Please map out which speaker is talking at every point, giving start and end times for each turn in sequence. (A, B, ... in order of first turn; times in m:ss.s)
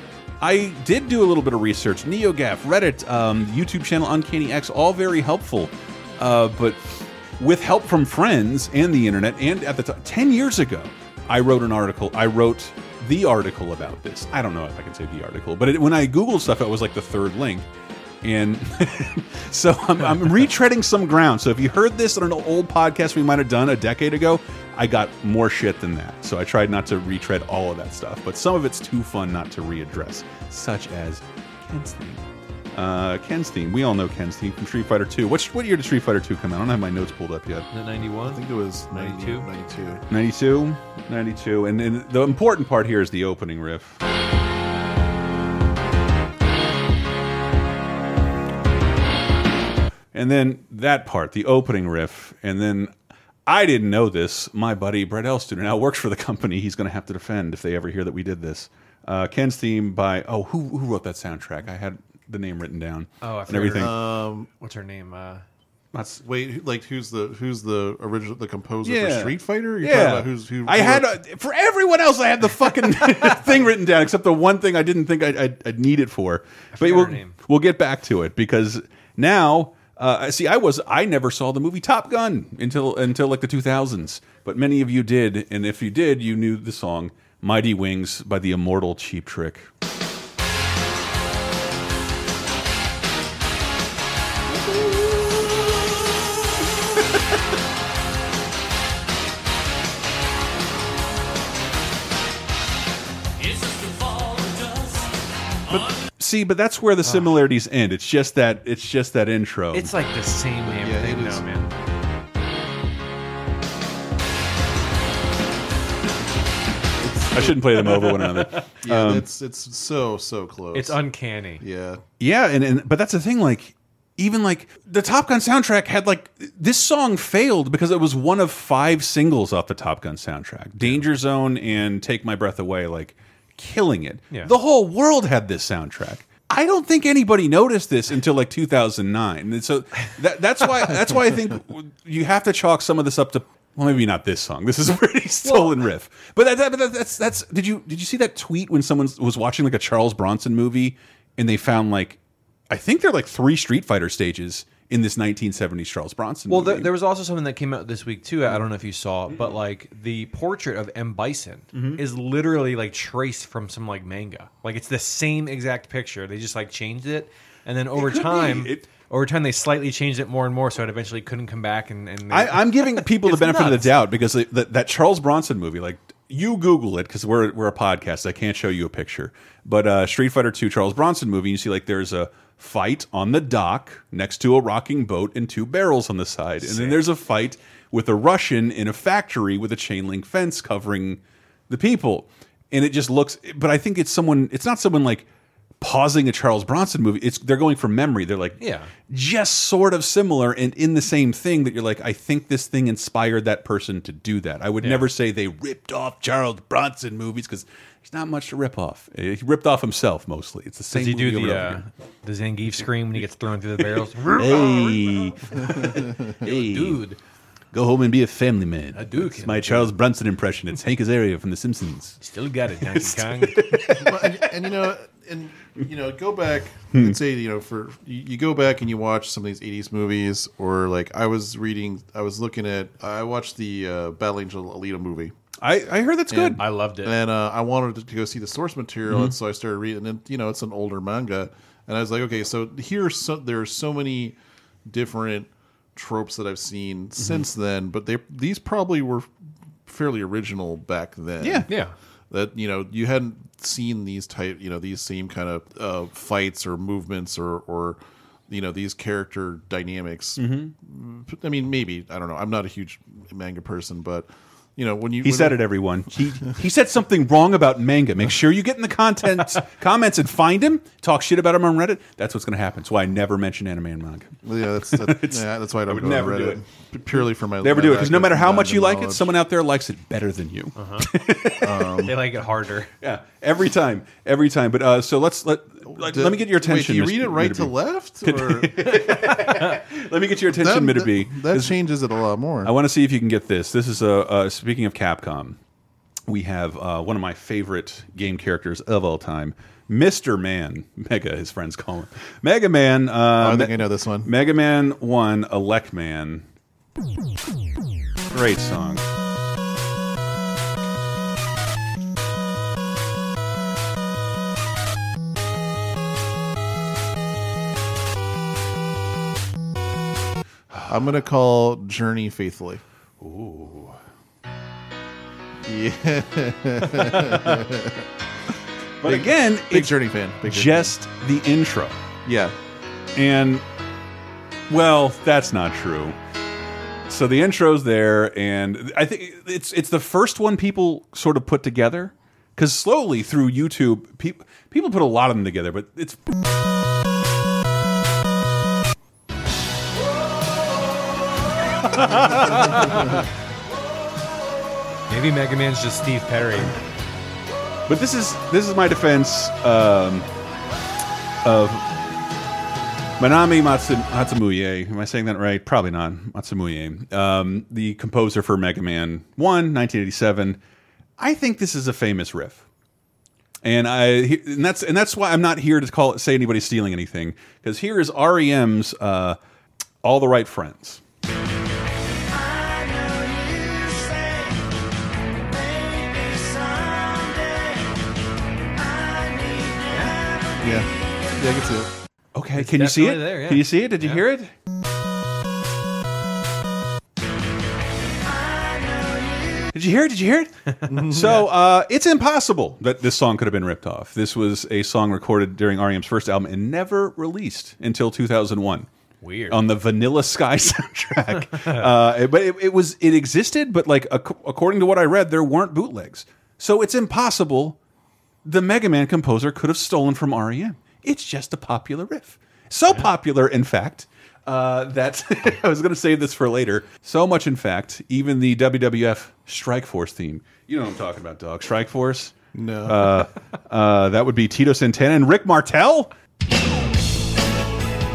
0:00.4-0:17.6 A
0:18.2-0:32.2 A
0:32.7-0:37.7 A
0:37.7-0:39.5 B
0:38.2-0:40.0 C
0:40.1-0:44.0 A
0:50.1-0:52.9 A
0:53.5-1:03.9 A
1:03.2-1:05.4 B
1:03.8-1:04.5 C
1:05.9-1:06.2 A
1:06.2-1:11.1 C
1:08.8-1:29.7 A
1:16.8-1:17.4 B
1:34.5-1:35.6 A
1:43.4-1:45.0 B
1:45.7-1:49.9 A
1:47.0-1:47.3 B
1:49.7-1:51.7 B
1:50.7-1:51.7 C
1:57.0-1:59.3 A
1:57.4-1:58.7 B
1:58.8-2:01.0 C
2:00.7-2:01.6 B
2:01.6-2:02.0 C
2:02.2-2:32.2 A
2:32.7-2:36.9 A
2:36.5-2:53.9 B
2:41.7-2:42.0 A
2:47.9-2:48.9 A
2:52.3-3:15.3 A
3:06.6-3:07.0 B
3:15.8-3:31.8 A
3:18.6-3:18.9 B
3:24.8-3:25.1 B
3:30.9-3:37.2 B
3:34.2-3:37.0 A
3:37.7-3:42.2 A
3:38.9-3:39.9 B
3:42.2-3:44.0 B
3:42.8-3:44.5 A
3:43.9-3:55.3 C
3:46.9-3:47.2 A
3:55.6-3:56.6 A
3:56.3-4:09.3 C
3:56.6-3:57.1 B
3:59.1-3:59.3 A
4:07.2-4:07.4 A
4:09.9-4:11.7 C
4:11.4-4:11.7 A
4:11.7-4:11.9 B
4:12.3-4:25.6 C
4:20.4-4:20.7 A
4:25.2-4:36.6 A
4:34.4-4:39.3 C
4:37.6-4:42.0 A
4:40.8-4:41.1 B
4:41.6-4:42.2 C
4:42.0-4:42.9 B
4:43.0-4:51.8 A
4:45.9-4:49.0 C
4:50.6-4:52.7 C
4:52.6-4:55.6 A
4:56.3-5:06.4 A
5:03.4-5:04.3 C
5:08.3-5:09.0 A
5:20.7-5:21.0 A
5:20.9-5:22.8 C
5:23.2-5:24.0 A
5:25.6-5:28.1 C
5:29.0-5:32.0 A
5:29.0-5:30.9 C
5:32.2-5:32.6 C
5:33.2-5:33.6 A
5:34.7-5:36.2 A
5:37.1-5:46.2 A
5:51.9-5:52.9 A
5:52.0-5:53.2 B
5:55.1-5:56.8 B
5:57.9-6:00.3 A
6:01.4-6:01.9 A
6:03.2-6:10.6 A
6:11.2-6:12.6 A
6:13.6-6:19.4 A
6:20.0-6:21.0 A
6:29.9-6:30.2 B
6:30.6-6:31.9 C
6:32.4-6:34.5 A
6:32.6-6:34.2 B
6:39.7-6:48.9 A
6:40.9-6:41.4 C
6:41.2-6:41.4 B
6:49.2-6:49.6 B
6:49.5-6:57.8 A
6:58.4-7:16.1 A
7:12.5-7:13.2 C